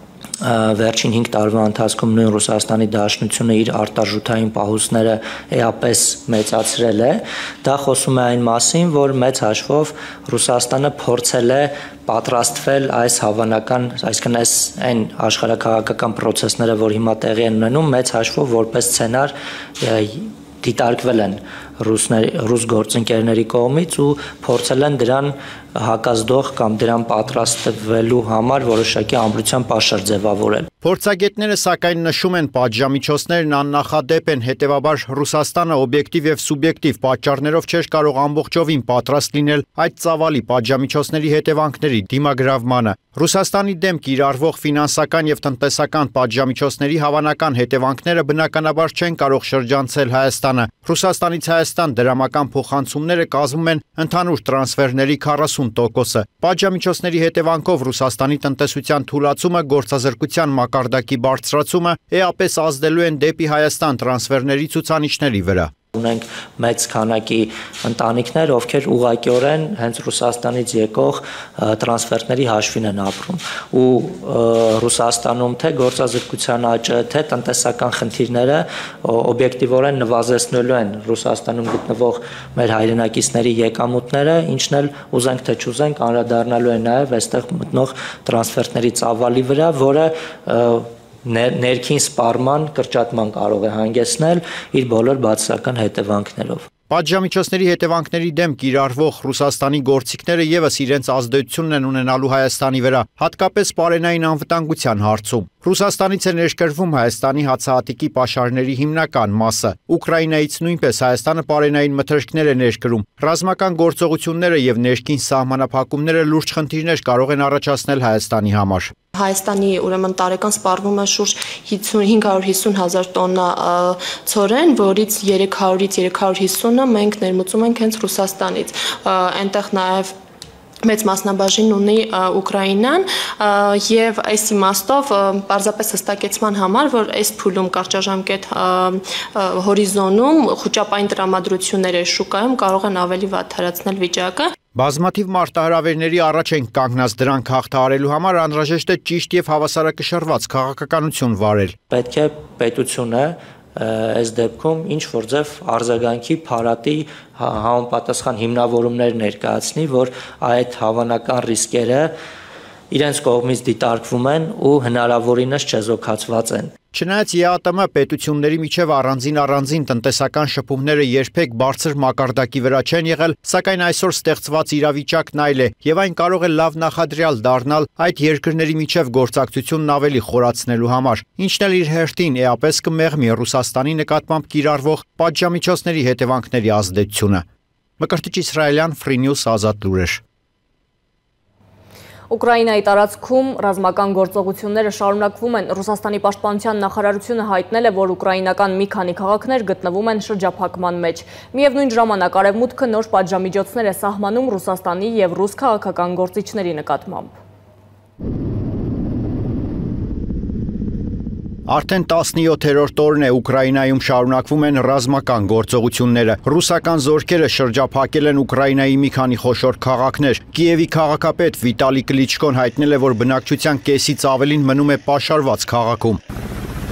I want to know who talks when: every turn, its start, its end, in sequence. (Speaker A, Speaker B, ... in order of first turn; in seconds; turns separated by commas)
Speaker A: 0.4-30.7, Speaker B: 30.8-65.7, Speaker A: 65.9-96.7, Speaker B: 96.9-118.9, Speaker C: 119.1-130.1, Speaker C: 130.8-144.5, Speaker B: 144.8-151.7, Speaker A: 151.9-162.1, Speaker A: 162.9-166.7, Speaker B: 166.9-187.4, Speaker B: 188.0-190.2, Speaker D: 192.3-207.3, Speaker B: 211.7-226.2